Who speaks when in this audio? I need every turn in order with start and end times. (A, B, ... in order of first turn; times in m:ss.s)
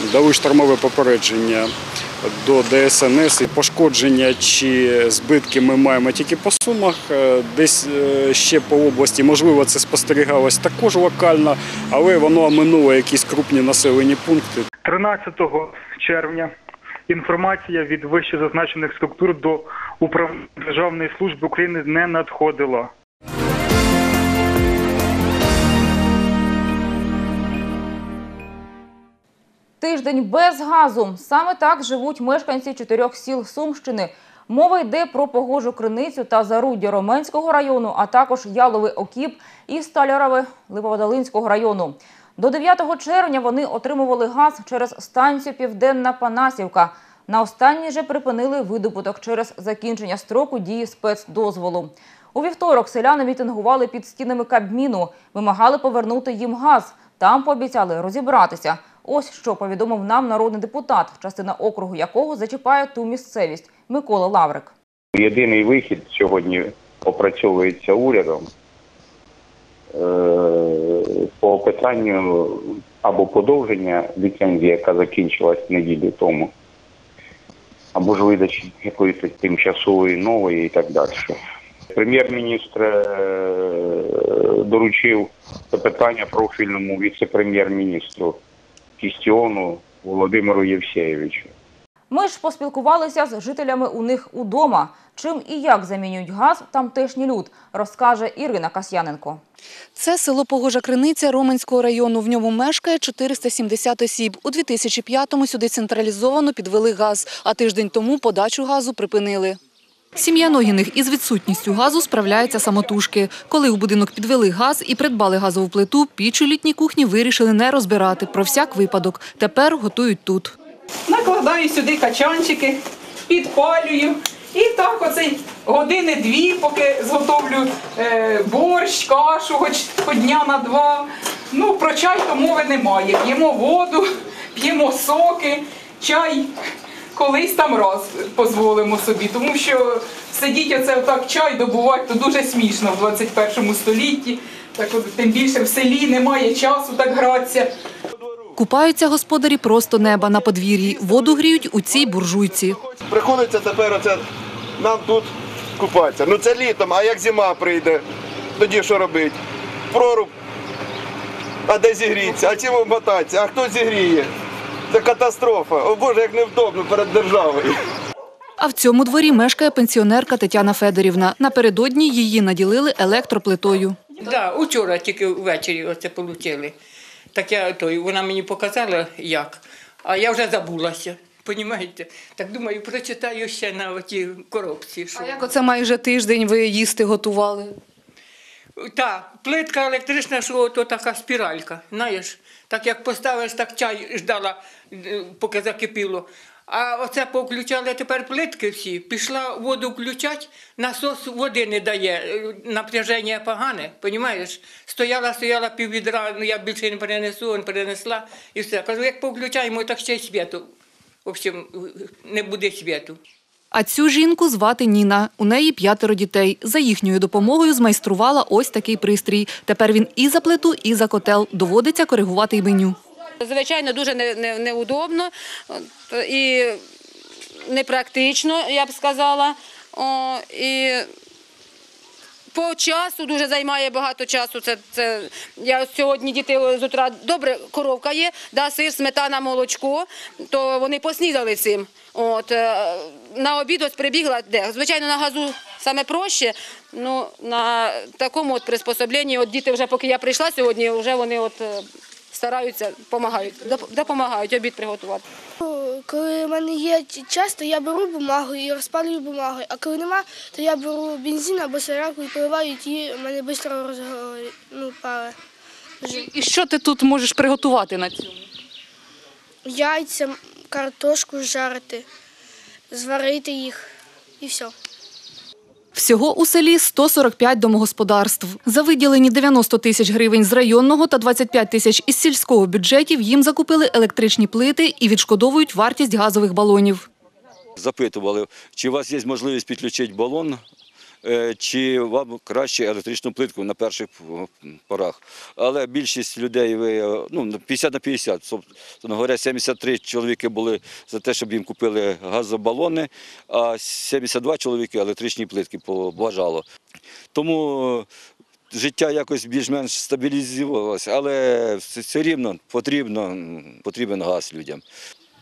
0:00.8-0:01.1 A
0:02.9-0:03.7 A
0:05.1-0:05.9 A
0:06.5-0:07.0 A
0:08.4-0:12.2 A
0:13.8-0:14.6 A
0:14.8-0:16.5 B
0:17.1-0:22.9 B
0:29.8-1:04.7 C
1:05.1-1:08.5 D
1:09.9-1:16.5 D
1:17.9-1:21.4 D
1:21.9-1:28.4 D
1:29.0-1:31.5 D
1:32.1-1:39.4 C
1:39.9-1:49.6 E
1:50.2-2:00.5 E
2:01.1-2:16.5 F
2:17.1-2:27.7 F
2:28.2-2:28.4 G
2:28.6-2:32.8 E
2:32.8-2:34.2 G
2:34.8-2:38.0 G
2:38.6-2:39.4 G
2:39.9-2:40.3 G
2:41.7-2:44.3 G
2:44.9-2:47.8 G
2:48.6-2:54.0 E
2:54.2-2:56.7 H
2:57.3-3:05.4 H
3:05.1-3:07.8 E
3:08.8-3:30.7 H
3:31.2-3:33.2 H
3:33.7-3:43.0 E
3:43.4-3:46.8 I
3:47.6-3:51.1 I
3:52.5-4:15.2 I
4:15.6-4:25.3 J
4:26.0-4:26.3 J
4:26.1-4:28.4 E
4:29.6-4:32.0 J
4:32.9-4:33.9 J
4:34.4-4:34.7 J
4:35.9-4:47.1 E
4:47.8-4:50.6 K
4:51.2-5:06.6 K
5:07.3-5:08.1 K
5:08.7-5:14.8 K